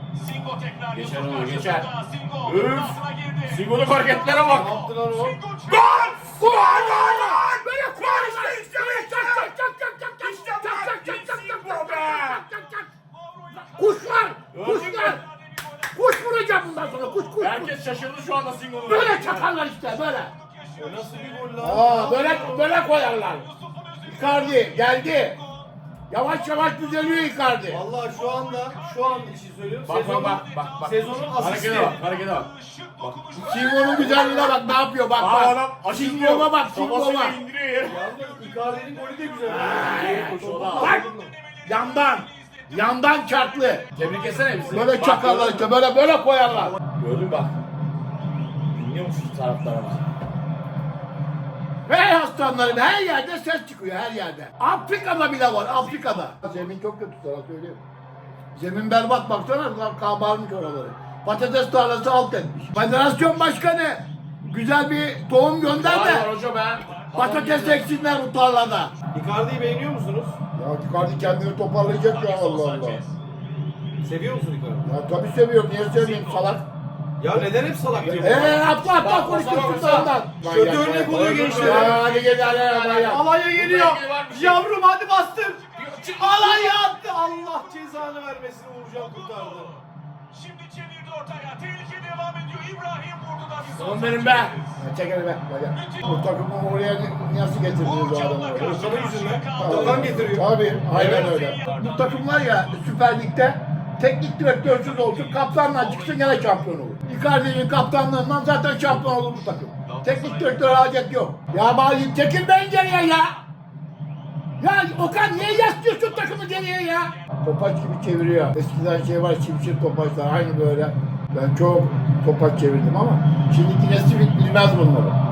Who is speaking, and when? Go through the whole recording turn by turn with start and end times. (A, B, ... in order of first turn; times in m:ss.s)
0:00.1-0:07.3 A
0:00.9-0:01.9 B
0:02.4-0:04.7 B
0:04.4-0:05.4 C
0:05.7-0:09.5 B
0:05.8-0:12.9 D
0:10.2-0:12.4 B
0:10.7-0:11.1 A
0:12.9-0:18.0 A
0:13.8-0:15.2 D
0:14.5-0:15.2 B
0:15.9-0:17.8 D
0:17.4-0:19.5 B
0:18.9-0:25.7 A
0:18.9-0:20.3 D
0:20.8-0:22.6 C
0:21.6-0:23.5 D
0:24.1-0:25.4 D
0:26.1-0:27.8 D
0:27.7-0:32.0 C
0:28.0-0:29.4 A
0:29.8-0:32.5 B
0:29.9-0:34.5 A
0:33.4-0:37.4 D
0:34.1-0:34.5 B
0:35.2-0:38.0 B
0:37.8-0:41.3 C
0:38.2-0:39.8 A
0:39.5-0:41.1 D
0:39.5-0:41.0 B
0:40.4-0:45.0 A
0:41.7-0:43.9 D
0:44.0-0:45.7 B
0:44.7-0:46.8 D
0:47.0-0:47.6 B
0:48.7-0:50.0 B
0:51.9-0:57.8 D
0:55.7-0:56.4 A
0:58.6-1:06.3 D
1:05.8-1:07.9 B
1:06.9-1:07.7 A
1:07.1-1:08.9 D
1:09.1-1:10.4 C
1:10.6-1:13.0 D
1:12.1-1:13.2 A
1:14.0-1:14.9 C
1:14.8-1:16.7 D
1:15.9-1:16.5 A
1:17.2-1:18.7 C
1:18.0-1:23.2 D
1:19.0-1:20.1 B
1:20.4-1:22.0 C
1:21.1-1:24.6 B
1:23.1-1:25.6 C
1:25.4-1:27.9 A
1:25.8-1:26.8 B
1:26.2-1:29.7 C
1:28.9-1:34.7 A
1:33.7-1:34.5 B
1:34.3-1:39.0 D
1:35.7-1:36.3 A
1:37.8-1:40.3 A
1:38.6-1:41.3 C
1:39.6-1:53.4 D
1:41.0-1:42.8 A
1:44.8-1:46.7 A
1:49.8-1:50.7 A
1:54.6-2:05.2 D
1:55.2-1:57.3 A